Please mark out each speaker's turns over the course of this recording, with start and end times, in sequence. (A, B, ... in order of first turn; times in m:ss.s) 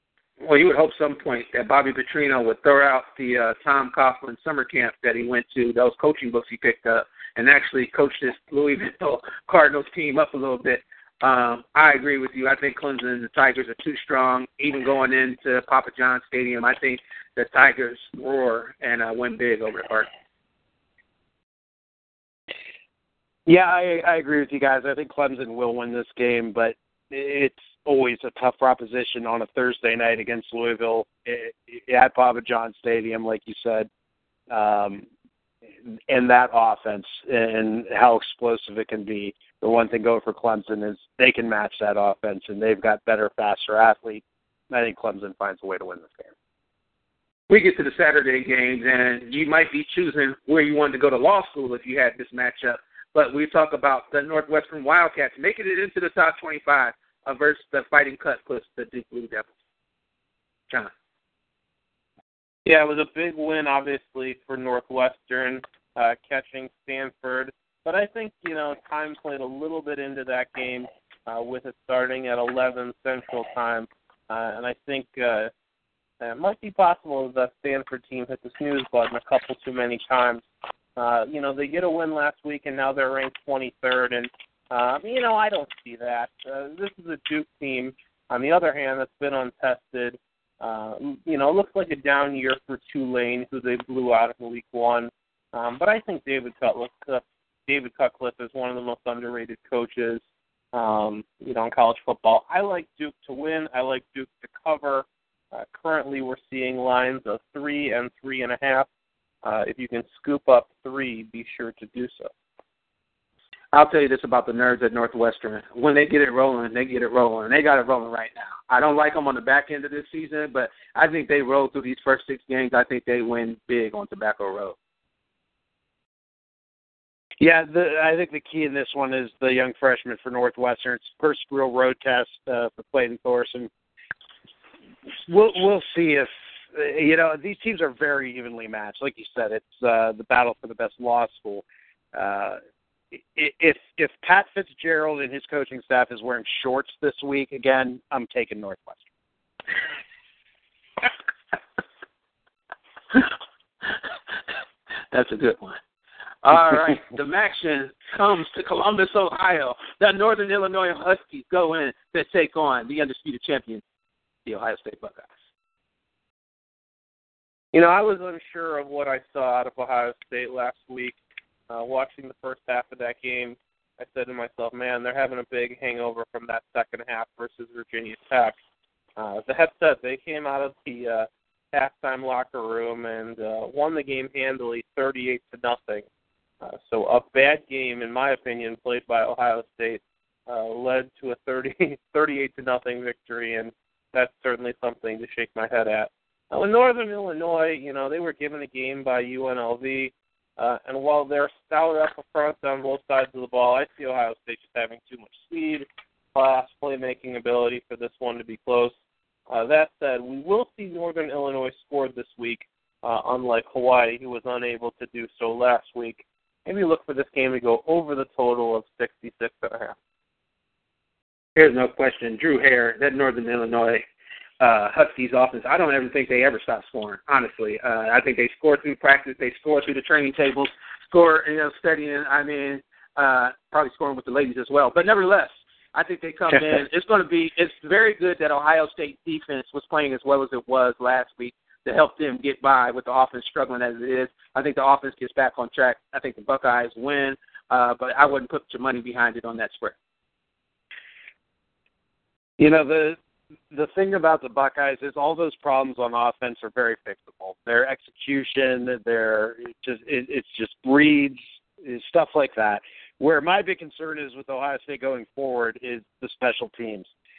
0:00.4-0:20.1 A
0:23.4-0:33.9 B
0:34.5-0:35.0 B
0:35.8-0:46.3 B
0:47.5-0:59.5 A
1:02.6-1:15.5 C
1:16.2-1:20.4 C
1:21.0-1:40.2 C
1:40.7-1:48.9 C
1:49.4-1:52.3 C
1:53.7-2:04.8 A
2:07.4-2:13.7 B
2:15.2-2:22.6 B
2:23.1-2:29.0 B
2:35.1-2:35.8 A
2:36.4-2:43.8 A
2:44.4-2:45.3 A
2:47.7-2:51.2 C
2:51.7-2:58.6 C
2:59.2-3:06.0 C
3:06.6-3:28.9 C
3:29.5-3:39.9 C
3:41.6-3:44.0 A
3:44.6-4:09.9 A
4:12.6-4:13.2 B
4:13.7-4:27.1 B